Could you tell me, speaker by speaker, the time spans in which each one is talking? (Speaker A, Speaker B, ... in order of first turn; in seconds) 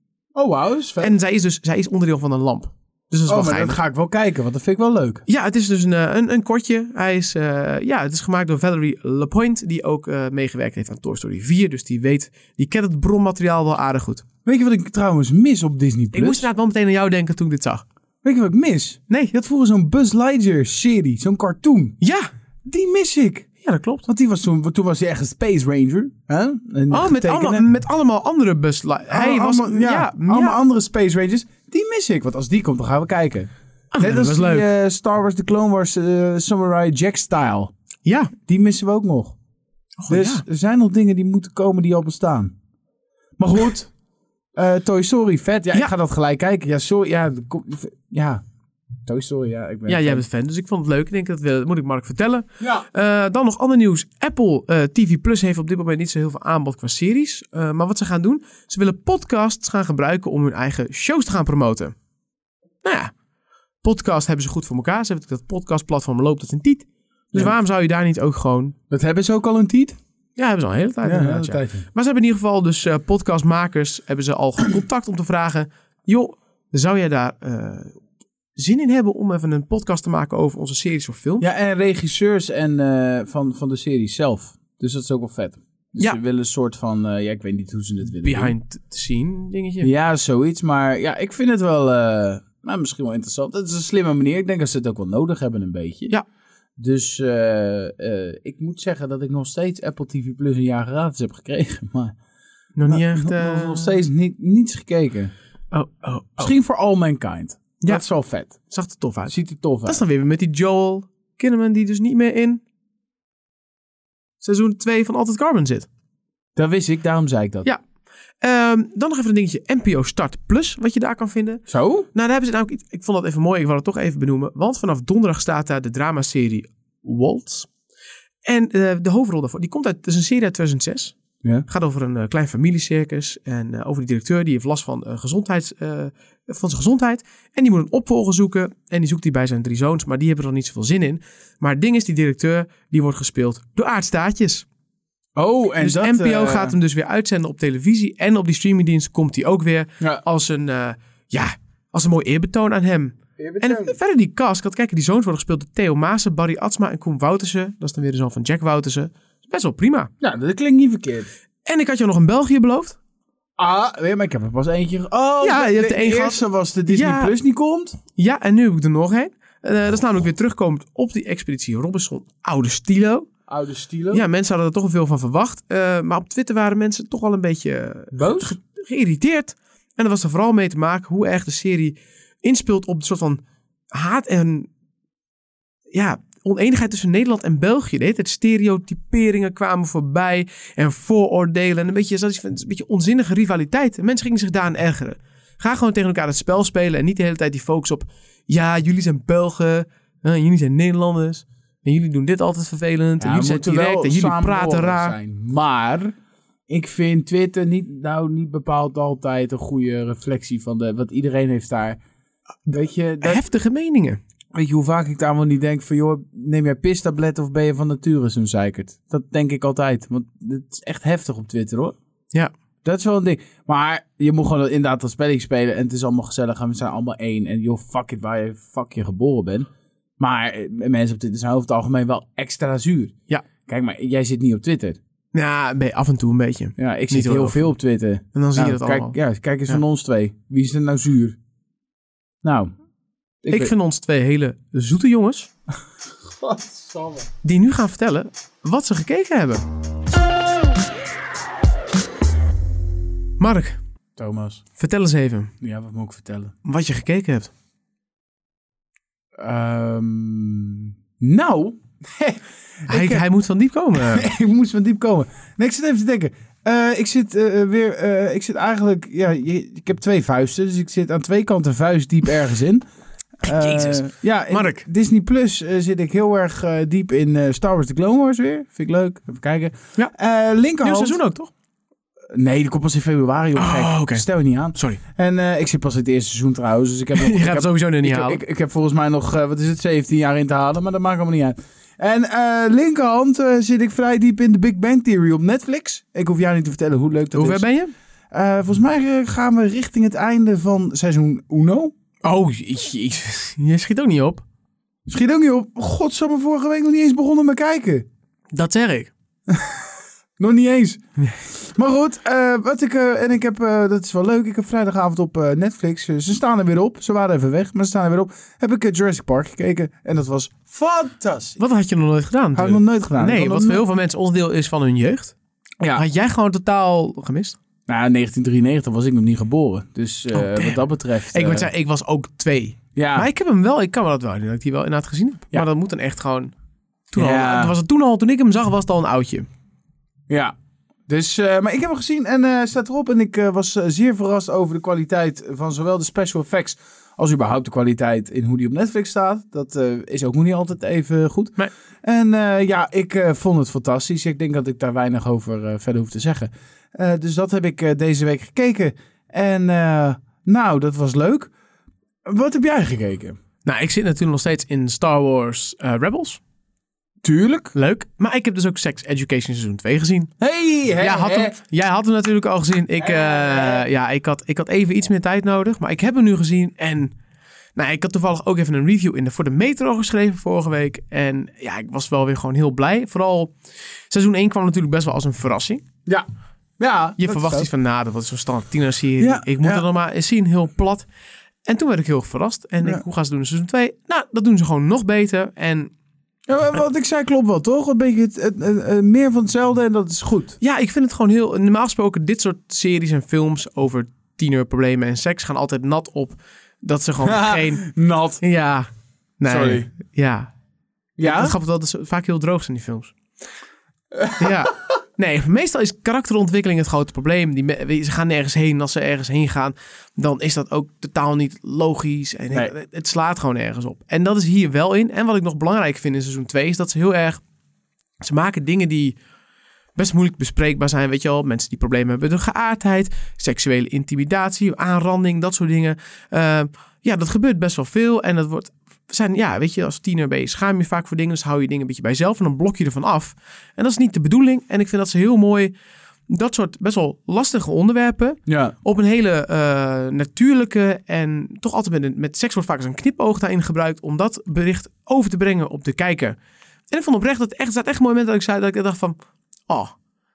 Speaker A: 0.3-1.2, 3.3-5.2, 14.4-16.5, 18.2-22.0, 22.6-23.5, 24.1-27.7, 29.1-33.5, 34.0-37.7, 38.5-39.4, 40.1-42.5, 43.4-43.9, 44.5-48.4, 49.1-50.2, 68.9-70.0, 71.0-71.9, 81.4-88.5, 89.8-96.1, 96.8-102.2, 102.9-105.3, 106.4-108.5, 109.3-110.0, 116.5-117.7, 121.7-122.1, 145.4-146.8, 153.4-154.0, 160.2-161.3, 163.6-168.0, 173.5-174.3, 178.1-178.6, 203.2-206.2, 206.7-212.0, 212.7-213.4, 214.5-222.0, 222.8-233.1, 233.7-235.0, 236.8-241.4, 242.4-242.7, 243.4-243.7, 246.4-247.3, 254.2-254.6, 255.6-256.5, 259.4-263.2, 263.9-272.8, 273.4-281.2, 282.3-297.6, 298.3-301.9, 305.1-308.1, 309.5-309.8, 310.4-321.6, 322.6-323.8, 327.9-331.7, 332.9-333.3, 337.1-337.8, 340.3-340.5, 341.1-361.5, 362.3-363.4, 367.2-367.7, 370.4-371.6, 373.0-373.9, 386.8-387.7, 389.2-389.9, 396.5-400.6, 407.2-408.4, 409.5-409.9, 411.2-411.6, 414.2-414.6, 448.5-448.7
Speaker B: 1.0-3.8, 5.3-14.2, 16.1-17.8, 22.0-22.3, 23.6-24.1, 26.9-30.6, 33.9-34.7, 38.0-38.3, 40.0-40.4, 49.9-62.0, 62.8-63.1, 63.8-68.8, 70.4-78.0, 78.6-81.5, 88.1-89.9, 102.8-103.9, 105.7-106.5, 108.7-109.3, 109.8-112.6, 114.4-115.9, 118.4-127.7, 128.4-131.2, 131.7-144.7, 145.8-160.1, 161.7-163.0, 165.4-167.3, 168.2-173.3, 174.1-184.7, 185.9-205.2, 213.2-214.2, 235.3-237.7, 238.3-239.2, 243.5-245.5, 247.4-249.6, 253.4-253.8, 254.8-255.5, 256.6-257.5, 262.9-264.3, 273.4-274.9, 280.8-281.5, 283.6-285.0, 287.1-288.4, 297.3-297.9, 302.2-304.4, 308.5-309.1, 321.6-325.4, 325.9-327.6, 330.3-336.5, 337.1-339.5, 363.6-366.4, 367.7-370.3, 371.0-377.1, 377.8-383.5, 384.1-385.9, 387.2-391.1, 391.6-395.9, 400.6-407.9, 408.4-408.9, 409.4-410.5, 411.2-413.2, 414.3-427.4, 428.2-429.2, 430.0-445.7, 446.3-456.4, 456.9-459.2, 459.7-459.9